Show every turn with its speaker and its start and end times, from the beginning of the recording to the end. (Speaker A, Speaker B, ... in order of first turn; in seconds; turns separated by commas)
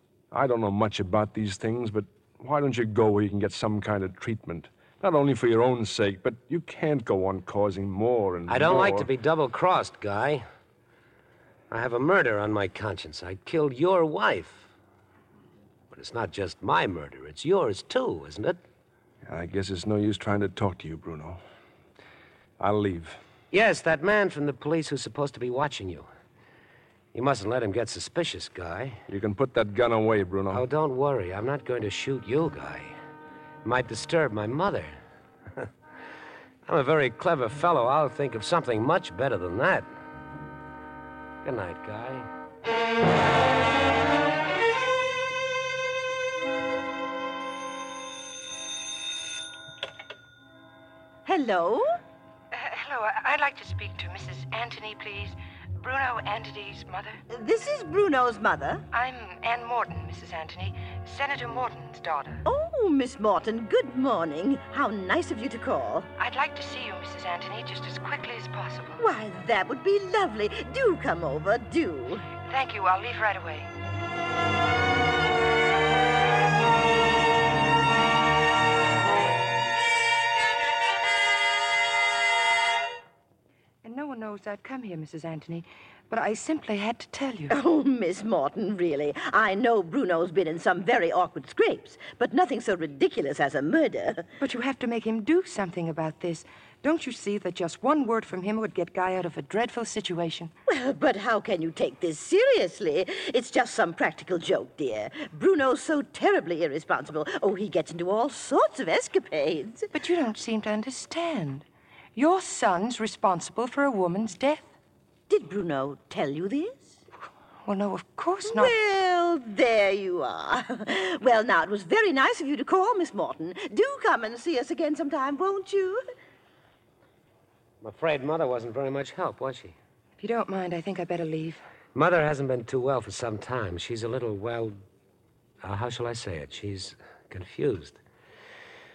Speaker A: 0.3-9.1, Speaker B: 8.5-10.4, Speaker B: 11.7-14.7, Speaker B: 15.9-18.6, Speaker A: 19.2-21.4, Speaker A: 22.6-23.2, Speaker B: 23.5-26.1, Speaker B: 27.1-29.0, Speaker A: 29.1-30.6, Speaker B: 30.5-33.0, Speaker B: 33.6-35.0, Speaker B: 36.6-39.9, Speaker B: 41.4-42.3, Speaker C: 51.2-51.9, Speaker D: 52.5-57.2, Speaker C: 57.3-58.8, Speaker D: 58.9-62.4, Speaker C: 62.4-66.1, Speaker D: 66.2-69.0, Speaker C: 69.0-72.3, Speaker D: 72.4-73.7, Speaker D: 83.8-87.5, Speaker C: 87.5-94.3, Speaker D: 94.4-100.5, Speaker C: 100.7-109.9, Speaker D: 109.9-114.7, Speaker C: 115.3-117.0, Speaker D: 117.6-118.7, Speaker C: 118.4-126.0, Speaker B: 127.8-129.8, Speaker D: 130.2-131.6, Speaker B: 131.9-134.8, Speaker B: 135.6-138.0